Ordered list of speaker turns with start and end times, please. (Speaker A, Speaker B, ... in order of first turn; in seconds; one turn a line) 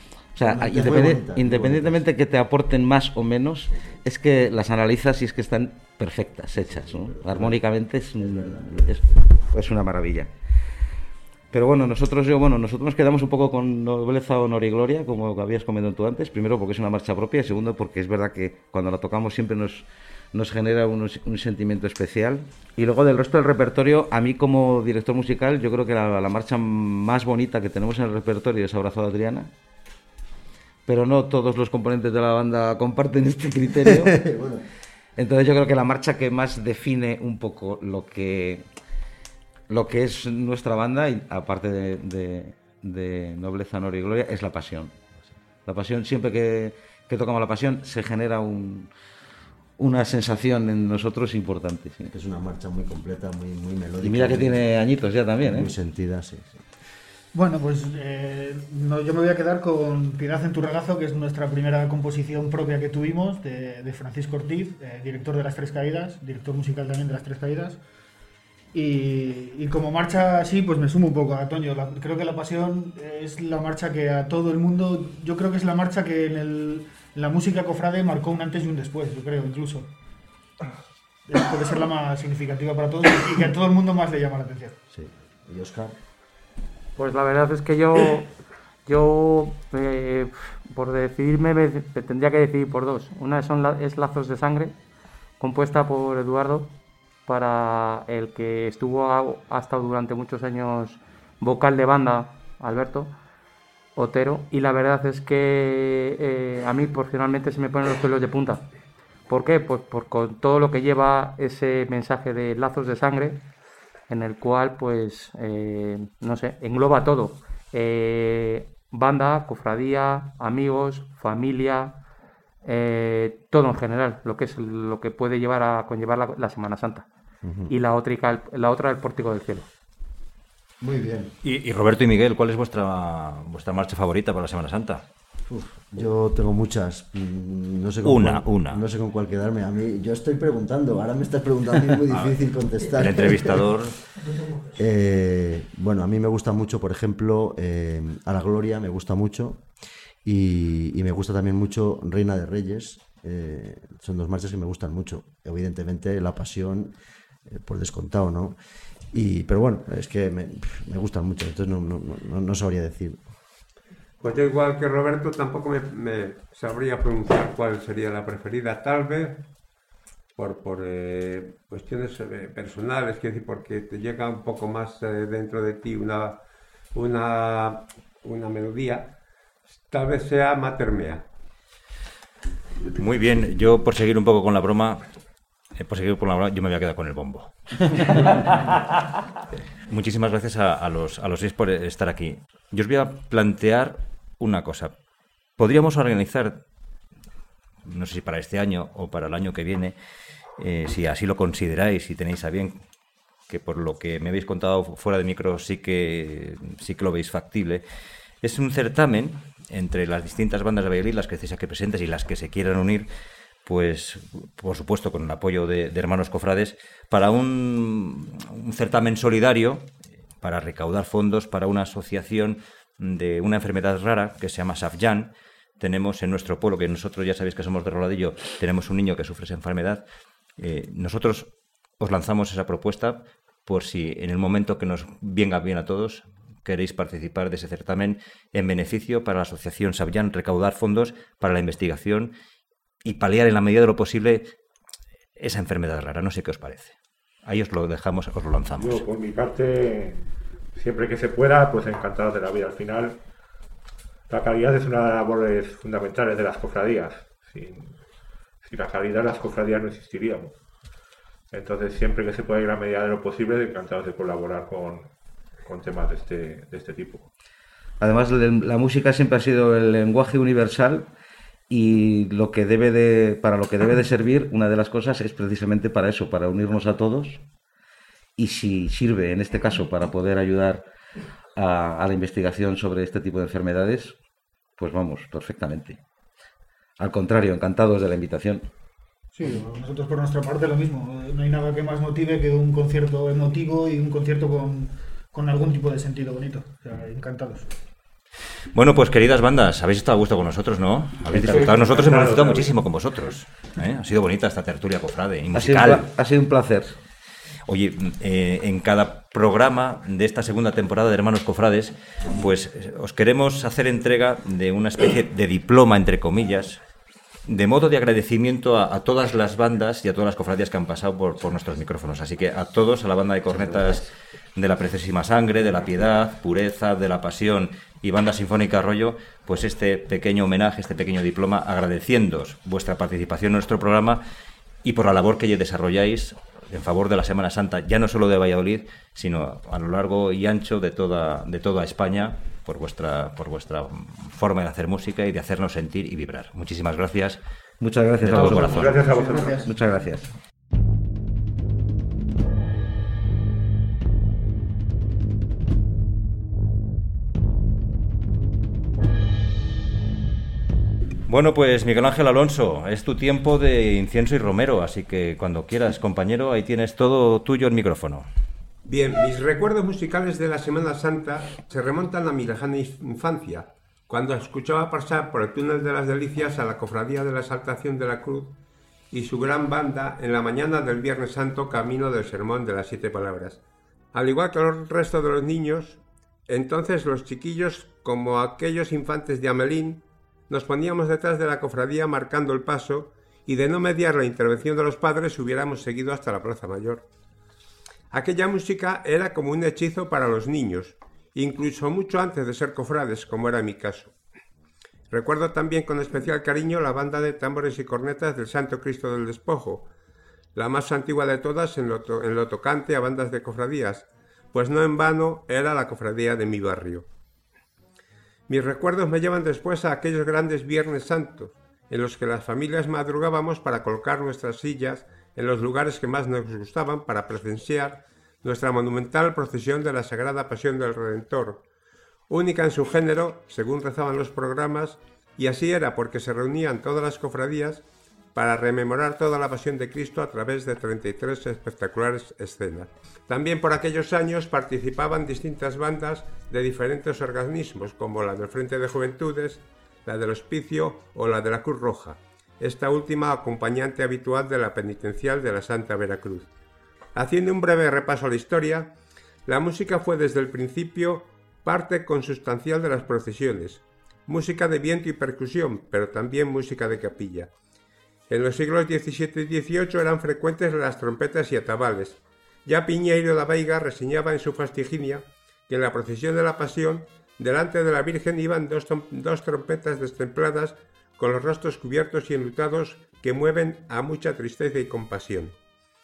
Speaker A: 0.3-10.3
Speaker B: 0.4-2.0
Speaker B: 6.6-7.6
Speaker B: 8.2-9.0
Speaker A: 11.5-29.5
Speaker A: 30.9-34.2
Speaker B: 33.8-34.6
Speaker A: 35.2-38.7
Speaker A: 39.7-45.0
Speaker A: 45.6-48.9
Speaker A: 49.8-52.1
Speaker B: 52.1-54.6
Speaker A: 54.0-55.7
Speaker B: 55.4-56.6
Speaker C: 57.3-67.8
Speaker C: 68.7-79.9
Speaker C: 81.3-84.8
Speaker B: 84.9-86.0
Speaker D: 87.0-88.3
Speaker D: 88.8-94.7
Speaker D: 95.4-96.7
Speaker D: 97.3-103.1
Speaker D: 104.0-108.6
Speaker D: 109.3-113.4
Speaker D: 114.1-122.0
Speaker D: 122.6-127.0
Speaker B: 127.4-127.8
Speaker D: 127.7-129.7
Speaker B: 130.8-131.3
Speaker E: 131.4-135.0
Speaker B: 135.5-143.6
Speaker E: 138.0-138.8
Speaker E: 142.1-144.0
Speaker B: 144.7-149.6
Speaker B: 150.2-156.9
Speaker B: 157.5-158.6
Speaker B: 159.1-163.2
Speaker F: 164.2-169.4
Speaker F: 170.4-176.4
Speaker F: 176.9-179.1
Speaker F: 179.9-181.2
Speaker E: 182.9-185.0
Speaker E: 185.8-188.5
Speaker E: 189.9-194.9
Speaker E: 195.6-196.6
Speaker E: 197.8-199.9
Speaker E: 200.6-202.8
Speaker E: 203.5-207.8
Speaker E: 208.4-213.1
Speaker E: 213.6-230.0
Speaker E: 230.6-242.3
Speaker E: 243.0-244.5
Speaker E: 245.4-249.0
Speaker G: 248.7-250.2
Speaker G: 250.8-253.2
Speaker G: 254.3-257.9
Speaker G: 258.6-260.5
Speaker G: 261.5-265.1
Speaker G: 265.6-267.3
Speaker A: 268.0-271.1
Speaker A: 271.7-277.4
Speaker A: 278.4-280.8
Speaker A: 281.6-284.1
Speaker A: 284.8-286.0
Speaker A: 287.0-288.6
Speaker C: 289.3-297.7
Speaker E: 298.7-306.1
Speaker G: 301.3-302.7
Speaker A: 305.5-306.9
Speaker E: 307.7-316.8
Speaker E: 317.5-324.0
Speaker A: 323.5-324.0
Speaker E: 324.6-334.2
Speaker E: 334.8-347.4
Speaker A: 347.8-349.1
Speaker E: 348.2-348.9
Speaker G: 348.3-349.6
Speaker C: 348.6-349.7
Speaker A: 349.6-350.3
Speaker E: 361.3-368.3
Speaker F: 368.9-378.5
Speaker F: 379.1-383.6
Speaker F: 384.1-397.0
Speaker F: 398.1-404.1
Speaker F: 405.1-409.9
Speaker F: 410.5-417.1
Speaker F: 418.5-431.6
Speaker F: 432.3-456.5
Speaker F: 457.1-458.9
Speaker F: 459.5-467.5
Speaker F: 468.3-485.6